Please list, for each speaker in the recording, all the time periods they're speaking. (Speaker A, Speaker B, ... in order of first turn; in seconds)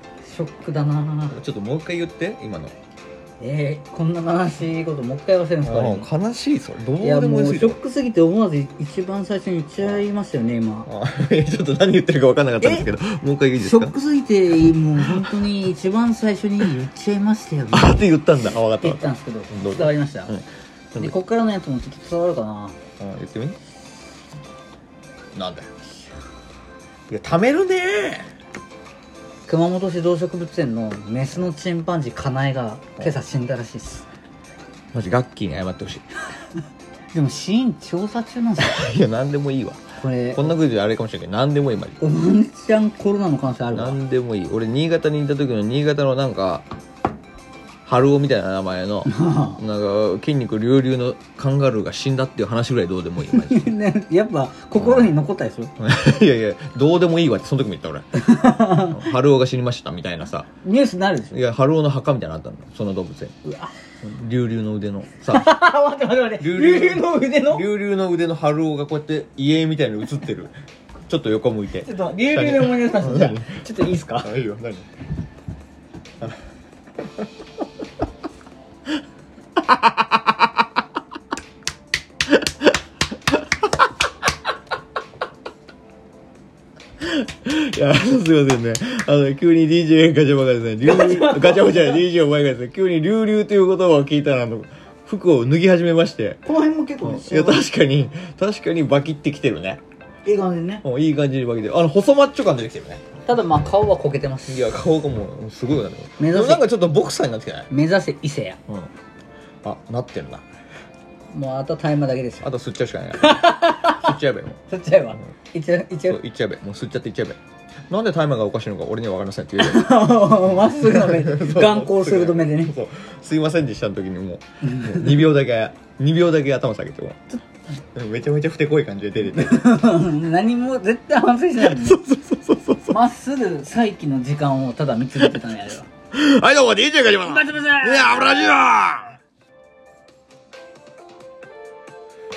Speaker A: 0.2-1.4, 3.4-6.1, 7.0-10.9, 12.6-12.9, 13.6-18.0, 18.8-20.3, 20.9-22.8, 29.5-34.0, 37.1-38.9, 40.0-40.5, 42.0-44.0, 49.0-49.6, 53.2-55.7, 58.1-59.0, 60.6-61.3, 63.4-63.7, 65.3-67.7, 71.8-74.3, 90.8-92.0, 96.4-97.6, 100.2-100.8, 103.3-104.7, 106.2-106.7, 107.7-108.6, 111.3-112.5, 113.2-114.1, 114.7-116.2, 119.6-122.7, 124.7-125.2, 129.3-132.0, 132.8-135.9, 137.2-138.5
Speaker B: 1.3-2.7, 5.6-7.8, 10.9-13.9, 15.0-15.4, 17.7-21.1, 23.0-23.6, 25.3-25.7, 27.1-28.3, 34.9-36.0, 38.6-39.8, 40.3-42.0, 43.7-46.6, 47.9-53.7, 54.8-55.1, 55.8-58.1, 58.7-60.5, 61.3-63.3, 64.0-65.5, 66.4-70.5, 71.1-74.8, 79.6-80.3, 87.0-96.4, 97.0-99.8, 100.8-103.0, 104.5-107.7, 109.6-110.4, 112.4-114.6, 116.1-117.4, 117.9-127.2, 127.8-129.7, 131.6-133.0, 136.1-139.2